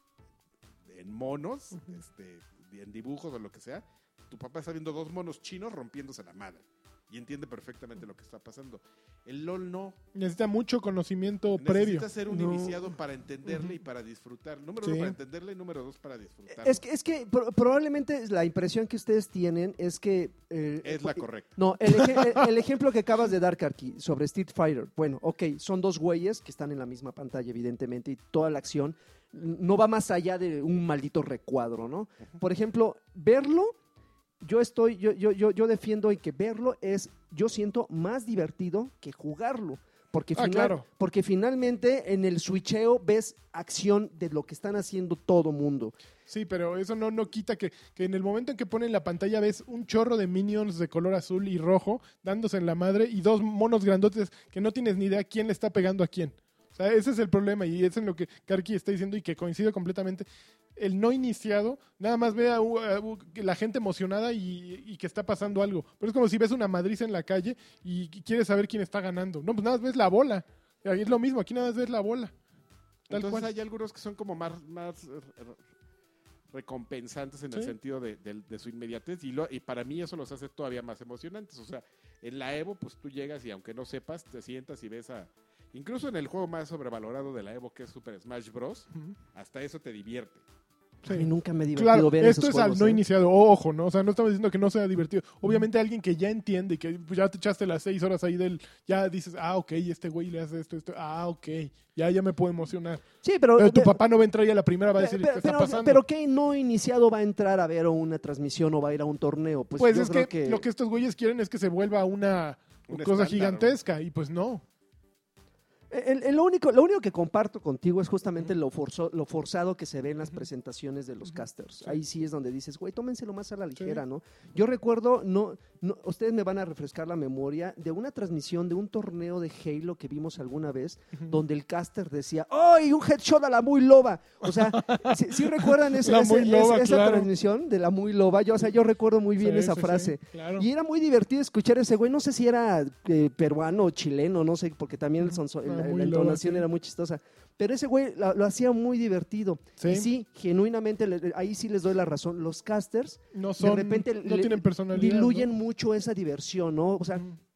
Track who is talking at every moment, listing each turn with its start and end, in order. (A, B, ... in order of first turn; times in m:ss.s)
0:00.8-0:10.0 A
0:10.1-0:12.1 B
0:11.6-0:16.8 A
0:12.3-0:12.9 C
0:14.8-0:15.1 B
0:16.5-0:33.7 C
0:20.8-0:21.5 A
0:21.8-0:22.4 B
0:34.4-0:45.9 C
0:40.3-0:40.8 B
0:46.3-1:12.3 B
1:13.1-1:13.5 B
1:13.1-1:15.6 A
1:16.5-1:30.4 A
1:31.0-1:46.0 B
1:31.1-1:33.0 C
1:43.2-1:43.9 C
1:44.9-1:50.6 C
1:49.8-1:54.6 B
1:52.9-1:53.8 A
1:55.9-2:37.2 C
2:01.2-2:02.0 B
2:03.8-2:04.0 B
2:14.4-2:17.3 B
2:19.4-2:20.7 B
2:25.2-2:26.6 B
2:29.8-2:30.1 B
2:33.3-2:35.5 B